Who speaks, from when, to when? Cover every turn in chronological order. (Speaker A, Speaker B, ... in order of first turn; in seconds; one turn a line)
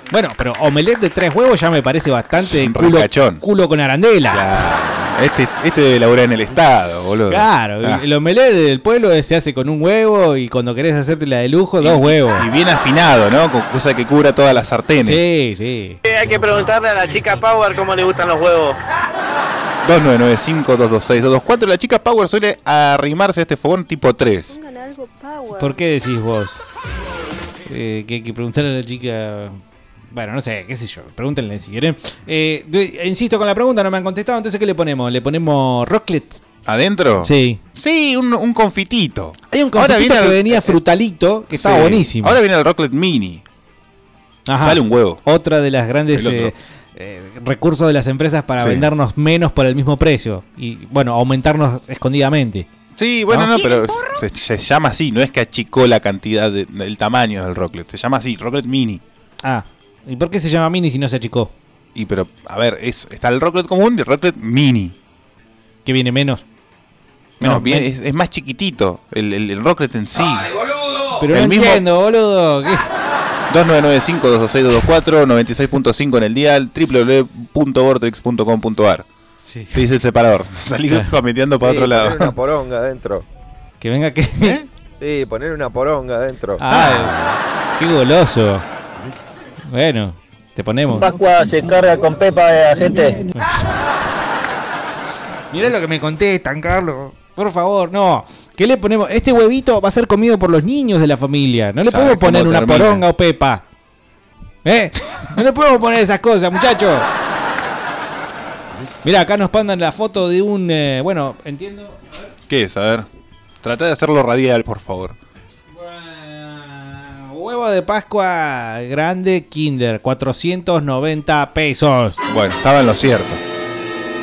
Speaker A: 0.1-4.4
Speaker B: 2.4-3.4
Speaker B: 4.3-8.0
Speaker A: 7.3-12.4
Speaker B: 11.8-15.2
Speaker A: 15.0-16.0
Speaker C: 16.0-18.8
Speaker B: 19.8-24.6
Speaker A: 25.5-26.6
Speaker A: 27.7-29.6
Speaker A: 30.1-36.4
Speaker B: 36.6-40.8
Speaker A: 37.2-37.6
Speaker A: 39.5-42.4
Speaker B: 41.5-43.4
Speaker A: 44.5-52.6
Speaker B: 44.6-45.2
Speaker B: 46.1-46.5
Speaker B: 48.6-48.9
Speaker B: 52.9-59.0
Speaker A: 53.3-53.7
Speaker A: 59.4-61.5
Speaker B: 61.9-65.0
Speaker A: 65.8-66.4
Speaker B: 67.4-70.5
Speaker A: 67.4-67.9
Speaker A: 70.2-70.4
Speaker A: 71.2-72.9
Speaker B: 71.3-71.8
Speaker B: 73.5-79.0
Speaker A: 79.4-79.8
Speaker B: 79.7-82.3
Speaker D: 81.6-83.2
Speaker A: 83.8-84.6
Speaker D: 85.0-86.6
Speaker A: 86.6-87.1
Speaker B: 86.7-87.4
Speaker A: 87.8-88.7
Speaker A: 89.7-91.1
Speaker E: 90.9-93.2
Speaker A: 93.3-93.7
Speaker A: 95.5-103.6
Speaker B: 101.9-103.0
Speaker A: 104.6-107.1
Speaker A: 109.0-112.3
Speaker B: 112.5-113.1
Speaker B: 113.6-115.2
Speaker A: 115.7-122.2
Speaker B: 122.3-123.4